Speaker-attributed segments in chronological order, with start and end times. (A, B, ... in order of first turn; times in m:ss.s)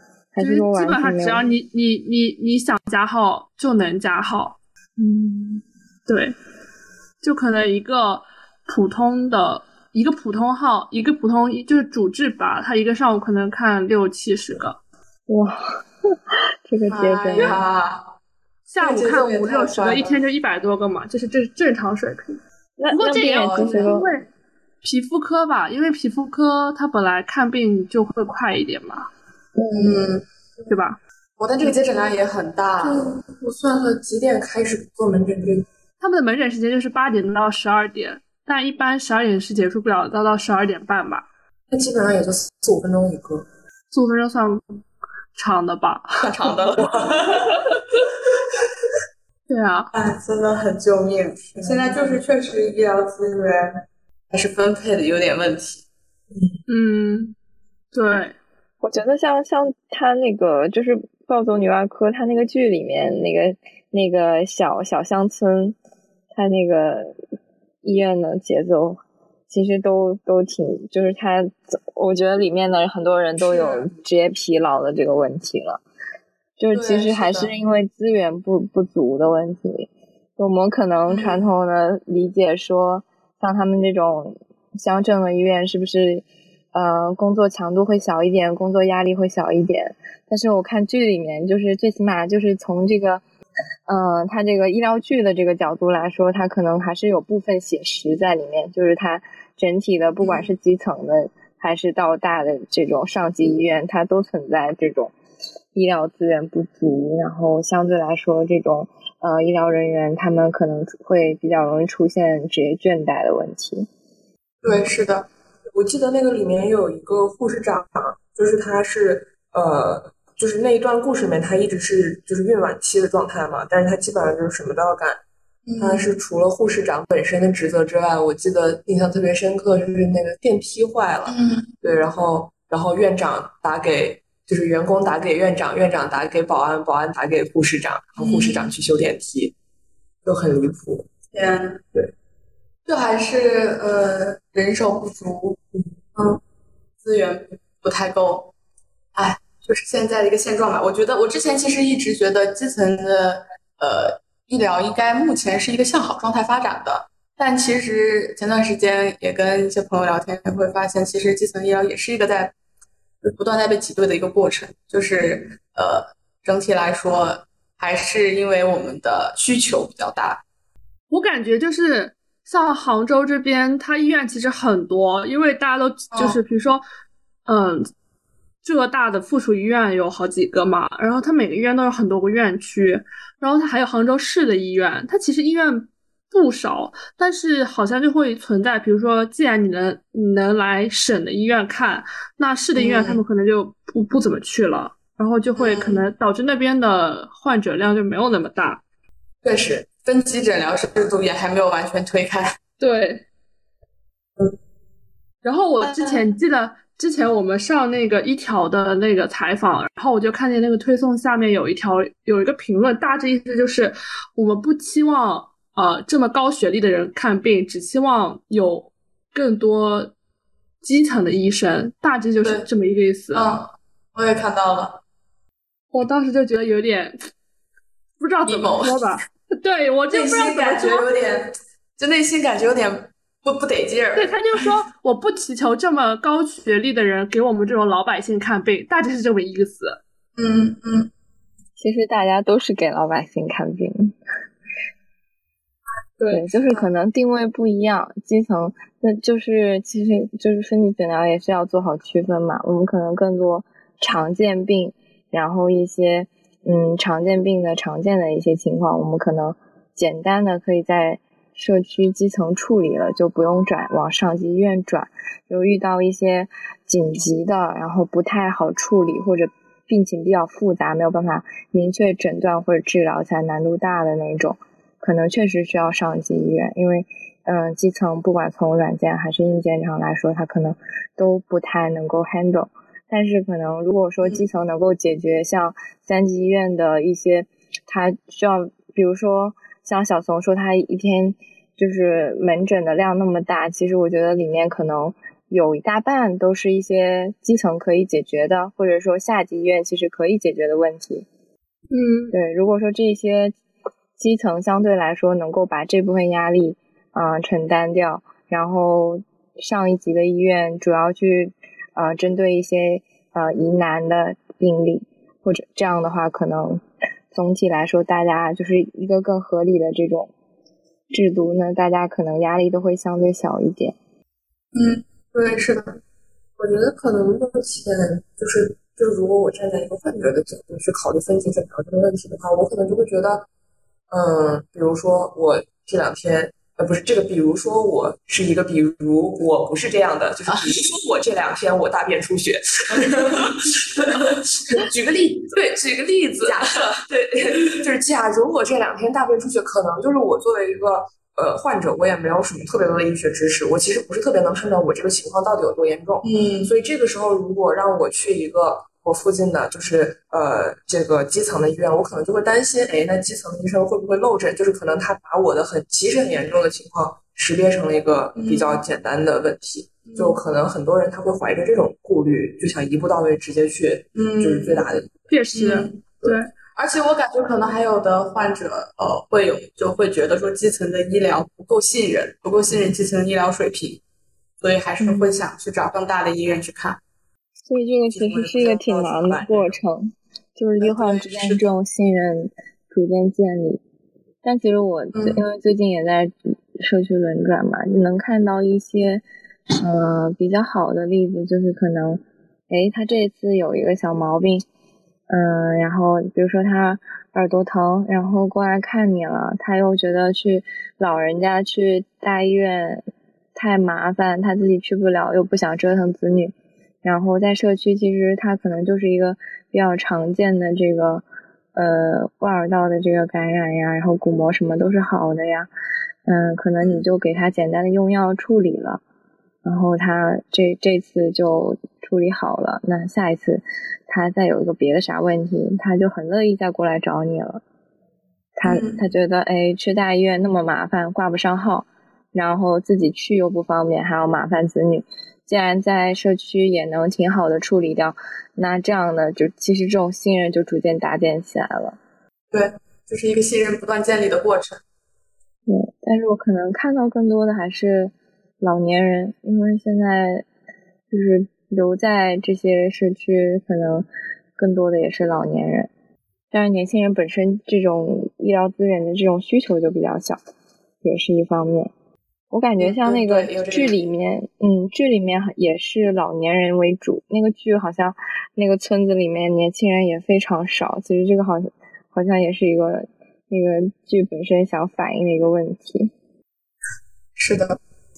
0:00.3-0:01.4 A
0:00.4-0:04.6 B
0:05.0-0:05.6 A
0:06.1-0:06.4 B
0:07.2-0:14.8 B
0:15.3-0:15.8 A
0:16.7-0:17.6 A
0:16.9-0:18.1 C
0:17.4-0:17.6 B
0:18.7-0:22.4 B
0:18.8-0:20.2 C
0:22.8-0:24.1 A
0:22.9-0:24.3 B
0:23.4-0:24.0 C
0:24.8-0:29.1 B
0:29.7-0:30.2 C
0:30.7-0:31.0 B
0:31.4-0:33.2 C
0:32.8-0:35.7 D
0:36.0-0:41.3 B
0:41.7-0:43.5 D
0:43.9-0:44.6 B
0:45.4-0:46.2 B
0:46.2-0:46.9 C
0:46.8-0:47.6 D
0:49.5-0:49.9 B
0:49.9-0:55.8 C
0:51.6-0:52.2 D
0:56.7-0:57.4 B
0:57.9-0:58.4 B
0:58.8-1:05.8 A
1:06.3-1:07.2 A
1:07.8-1:15.8 A
1:13.4-1:13.9 C
1:16.6-1:33.2 A
1:16.7-1:17.5 C
1:21.1-1:21.4 C
1:33.9-1:45.1 A
1:40.2-1:40.5 C
1:45.7-1:53.9 A
1:54.6-1:55.3 C
1:55.7-2:05.2 D
2:05.7-2:06.2 C
2:05.8-2:19.5 D
2:11.3-2:11.8 C
2:18.2-2:18.8 C
2:20.2-2:21.1 D
2:21.3-2:21.8 C
2:22.9-2:25.6 C
2:27.0-2:28.5 C
2:29.2-2:42.5 C
2:43.2-2:50.4 C
2:51.1-2:56.8 B
2:56.1-2:56.4 C
2:57.5-2:57.9 B
2:58.6-3:18.8 B
3:12.8-3:13.2 C
3:15.6-3:16.1 C
3:19.4-3:22.6 C
3:22.8-3:23.2 B
3:25.4-3:40.1 B
3:25.8-3:26.3 C
3:40.8-3:43.5 B
3:43.3-3:45.0 C
3:45.9-3:47.2 B
3:48.2-3:51.1 B
3:48.4-3:49.1 C
3:50.1-3:54.7 C
3:54.2-4:00.0 B
4:00.4-4:01.1 C
4:01.8-4:04.2 A
4:06.2-4:06.5 D
4:06.3-5:01.3 A
5:01.9-5:02.3 B
5:02.3-5:03.6 A
5:04.2-5:20.3 A
5:21.1-5:24.0 A
5:24.7-5:26.0 C
5:26.6-5:33.5 D
5:34.1-5:45.0 D
5:44.8-5:45.6 C
5:45.5-6:15.1 D
5:46.4-5:46.9 C
5:56.2-5:56.7 C
6:08.4-6:08.8 C
6:10.1-6:10.4 C
6:14.2-6:14.8 C
6:15.3-6:16.5 B
6:15.5-6:24.0 C
6:24.6-6:27.0 C
6:25.0-6:25.4 A
6:27.7-6:33.8 A
6:28.1-6:29.8 D
6:30.8-6:31.6 C
6:34.4-6:39.2 A
6:35.1-6:35.4 C
6:39.8-6:44.6 A
6:45.3-7:05.7 A
7:06.3-7:09.0 A
7:09.6-7:17.6 A
7:18.6-7:32.0 A
7:18.6-7:19.0 C
7:32.5-7:34.8 C
7:35.7-7:40.5 A
7:41.1-7:45.9 A
7:46.5-7:50.4 A
7:51.0-7:51.9 A
7:52.5-8:06.1 A
7:52.8-7:54.0 C
8:07.4-8:07.8 C